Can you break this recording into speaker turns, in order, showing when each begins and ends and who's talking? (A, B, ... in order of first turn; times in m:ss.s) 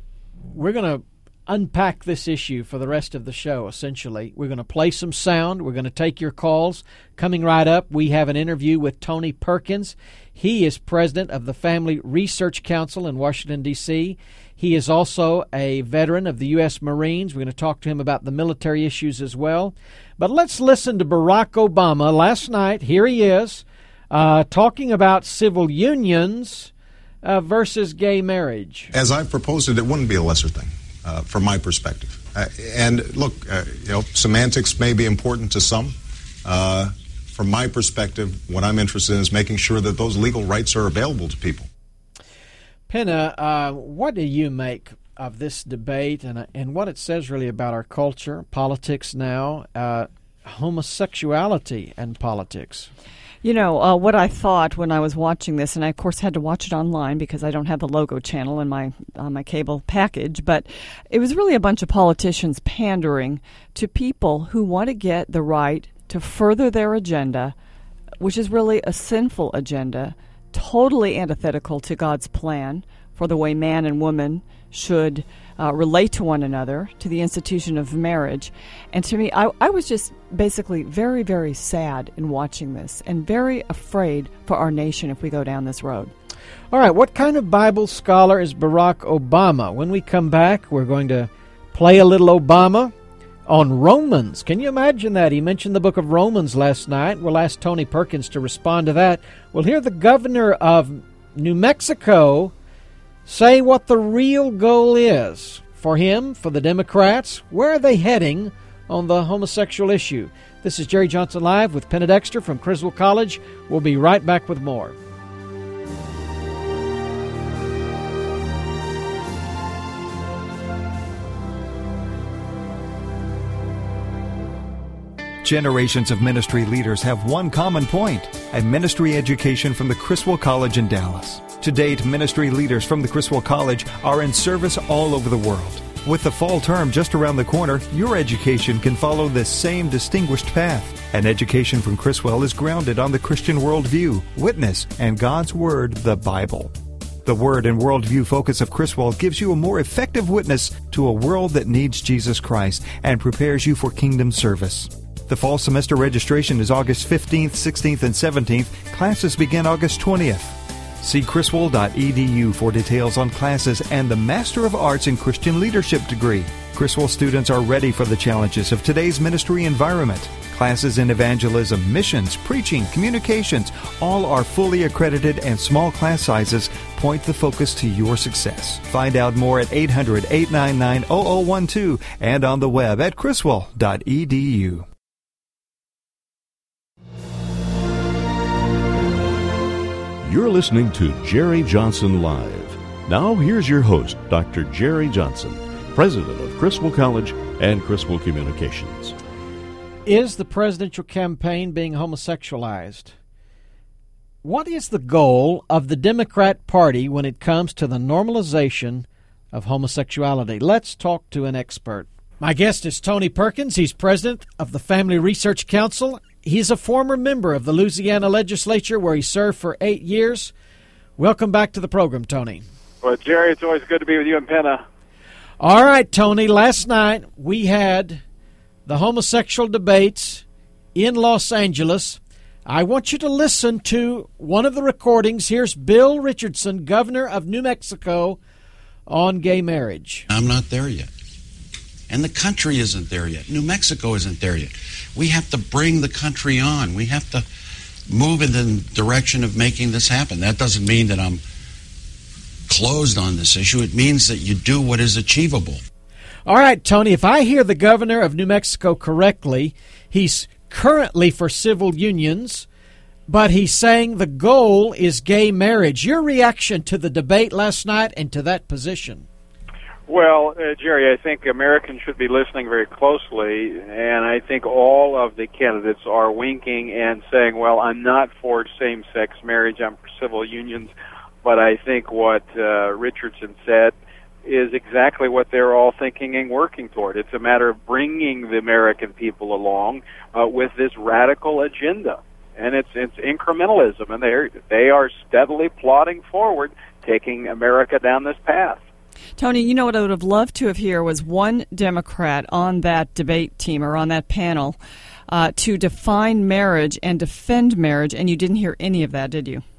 0:00.5-0:26.7 A
0:27.2-0:28.9 A
0:28.9-0:41.7 B
0:42.9-0:52.9 A
0:53.4-1:07.6 C
1:08.2-1:26.1 C
1:26.7-1:32.9 A
1:33.5-1:42.5 A
1:43.3-1:55.0 A
2:05.4-3:04.9 D
3:10.2-3:19.2 E
3:20.0-3:23.2 A
3:24.4-3:40.5 A
3:41.2-3:42.6 A
3:43.0-3:44.8 F
3:45.6-3:48.2 A
3:48.9-3:58.4 A
3:59.1-4:00.3 A
4:00.3-4:01.1 G
4:02.1-4:07.5 G
4:08.1-4:11.4 G
4:12.7-4:15.8 G
4:16.4-4:22.7 A
4:23.3-4:29.3 A
4:30.1-4:40.9 F
4:41.4-4:43.9 F
4:44.4-4:58.8 F
4:59.4-5:04.8 C
5:05.3-5:09.6 C